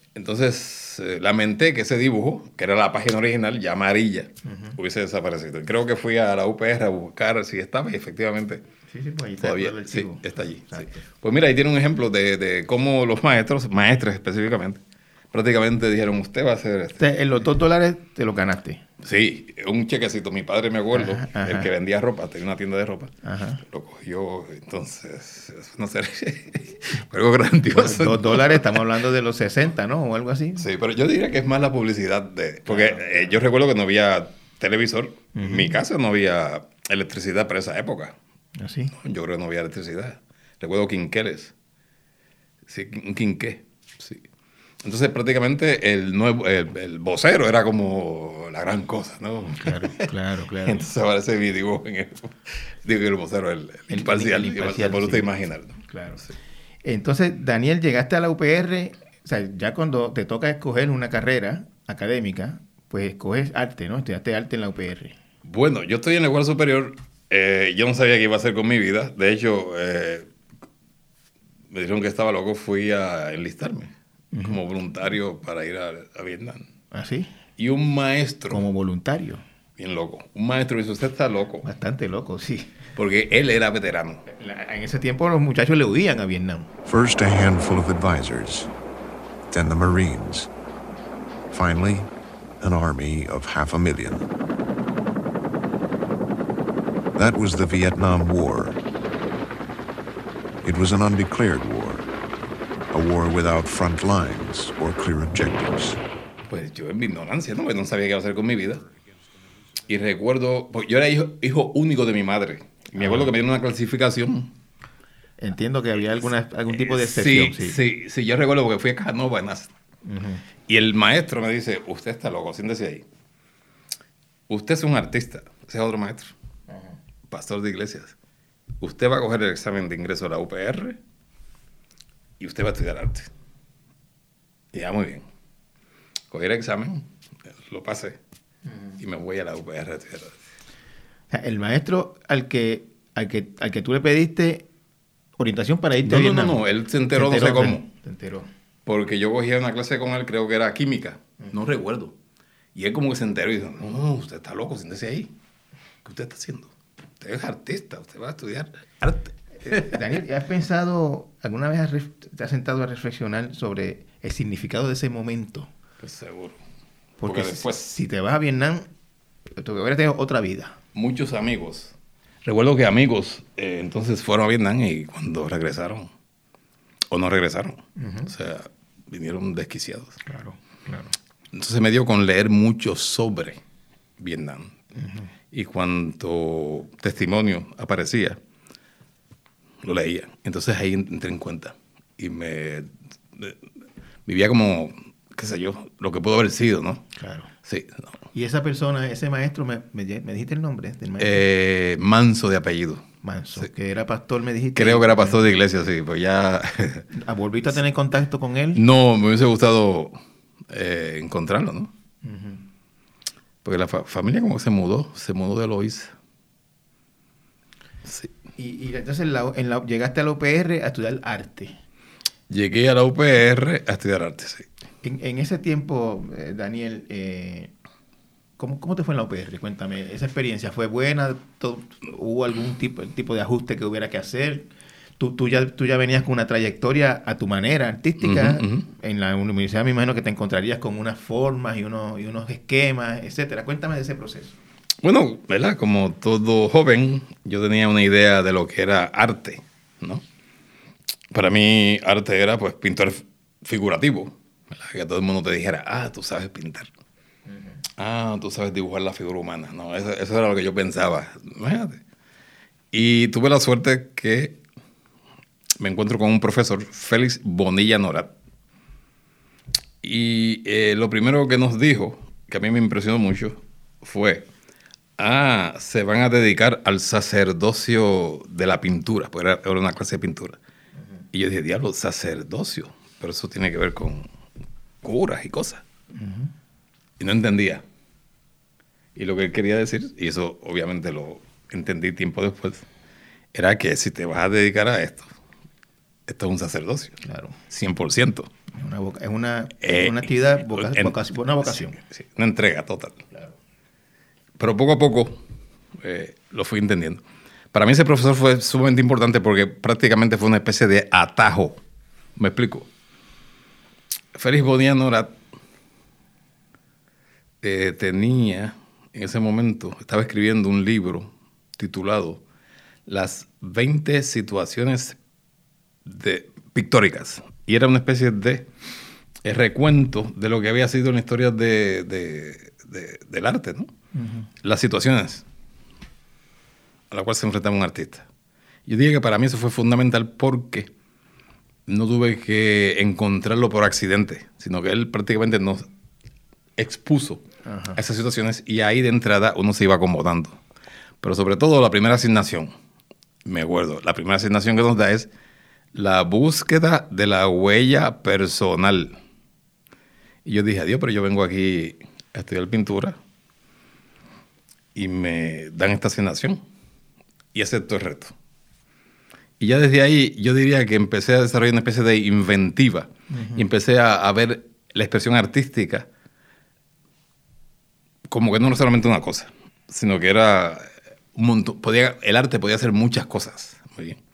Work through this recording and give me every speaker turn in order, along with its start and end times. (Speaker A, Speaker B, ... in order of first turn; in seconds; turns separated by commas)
Speaker A: 0.1-8.6, Speaker B: 4.4-4.8, Speaker B: 8.9-11.0, Speaker A: 9.4-14.8, Speaker A: 15.3-17.0, Speaker B: 17.0-18.8, Speaker A: 19.0-23.1, Speaker B: 20.9-21.7, Speaker B: 23.2-23.6, Speaker A: 23.6-28.8, Speaker B: 27.7-30.7, Speaker A: 30.6-38.2, Speaker B: 32.7-33.3, Speaker B: 35.3-35.8, Speaker B: 38.6-38.9, Speaker A: 38.9-41.5, Speaker A: 42.7-44.2, Speaker A: 44.8-55.8, Speaker B: 49.6-50.9, Speaker B: 53.9-55.3, Speaker B: 55.9-56.2, Speaker B: 56.8-65.2, Speaker A: 65.5-70.3, Speaker A: 71.7-76.7, Speaker B: 74.3-74.6, Speaker B: 76.9-77.3, Speaker A: 77.6-78.6, Speaker B: 78.5-79.4, Speaker A: 79.8-81.7, Speaker B: 81.6-82.7, Speaker A: 83.0-84.2, Speaker B: 84.3-86.7, Speaker C: 86.9-88.7, Speaker C: 89.5-90.5, Speaker C: 91.5-92.1, Speaker C: 92.6-94.3, Speaker C: 97.2-98.8, Speaker C: 100.6-102.0, Speaker C: 102.9-106.0, Speaker A: 106.5-108.8, Speaker A: 109.9-114.5, Speaker B: 113.0-113.3, Speaker B: 115.4-117.8, Speaker A: 116.7-119.7, Speaker B: 120.0-120.4, Speaker A: 120.7-123.1, Speaker A: 124.5-126.3, Speaker A: 127.3-128.2, Speaker A: 128.8-131.0, Speaker A: 132.4-133.3, Speaker A: 134.7-135.3, Speaker A: 136.3-137.1, Speaker A: 137.7-138.2, Speaker A: 139.0-140.4, Speaker B: 141.3-144.7, Speaker B: 145.4-148.5, Speaker A: 146.0-147.8, Speaker A: 148.9-152.2, Speaker A: 152.8-155.3, Speaker A: 156.0-160.0, Speaker B: 159.6-165.7, Speaker A: 166.0-166.6, Speaker B: 167.2-168.9, Speaker A: 167.2-167.8, Speaker B: 169.6-170.8, Speaker A: 170.9-176.1, Speaker A: 177.1-180.2, Speaker B: 178.0-178.3, Speaker B: 180.2-181.1, Speaker A: 181.5-183.6, Speaker A: 184.2-184.7, Speaker B: 184.9-185.3, Speaker A: 185.5-188.4, Speaker A: 189.8-193.6, Speaker A: 194.3-197.0, Speaker B: 197.2-197.5, Speaker A: 197.6-198.2, Speaker B: 198.3-201.4, Speaker A: 201.2-203.1, Speaker B: 203.2-205.4, Speaker A: 204.8-207.1, Speaker B: 207.1-208.8, Speaker A: 208.8-211.9, Speaker B: 212.2-212.6, Speaker A: 213.6-216.1, Speaker A: 218.1-218.3, Speaker B: 218.6-221.8, Speaker A: 222.5-224.7, Speaker B: 225.0-227.7, Speaker B: 228.6-244.6, Speaker A: 238.2-238.9, Speaker A: 245.0-250.2, Speaker A: 251.3-256.9, Speaker A: 258.0-262.0, Speaker A: 262.9-264.6, Speaker A: 265.8-268.3, Speaker A: 270.0-274.5, Speaker A: 275.2-280.6, Speaker A: 281.3-284.3, Speaker A: 285.0-285.8, Speaker B: 286.1-286.5, Speaker A: 287.2-287.8, Speaker A: 289.2-292.9, Speaker A: 293.5-295.3, Speaker A: 296.3-298.5, Speaker B: 297.2-297.6, Speaker B: 298.7-302.0, Speaker A: 299.8-303.2, Speaker A: 304.6-305.4, Speaker A: 306.0-307.2, Speaker A: 307.7-311.8, Speaker A: 312.4-312.9, Speaker A: 314.4-315.4, Speaker A: 317.6-322.4, Speaker A: 323.1-325.2, Speaker A: 326.1-328.7, Speaker A: 329.4-333.9, Speaker B: 334.1-334.5, Speaker A: 334.6-335.4, Speaker A: 337.1-338.3, Speaker A: 338.9-340.9, Speaker A: 341.9-345.9, Speaker A: 346.8-350.6, Speaker B: 347.6-348.0, Speaker A: 351.2-352.7, Speaker A: 353.4-355.3, Speaker A: 355.9-359.2, Speaker A: 360.4-363.2, Speaker A: 364.9-366.6, Speaker A: 367.5-368.3, Speaker A: 369.6-376.1, Speaker B: 373.3-373.6, Speaker A: 378.3-384.2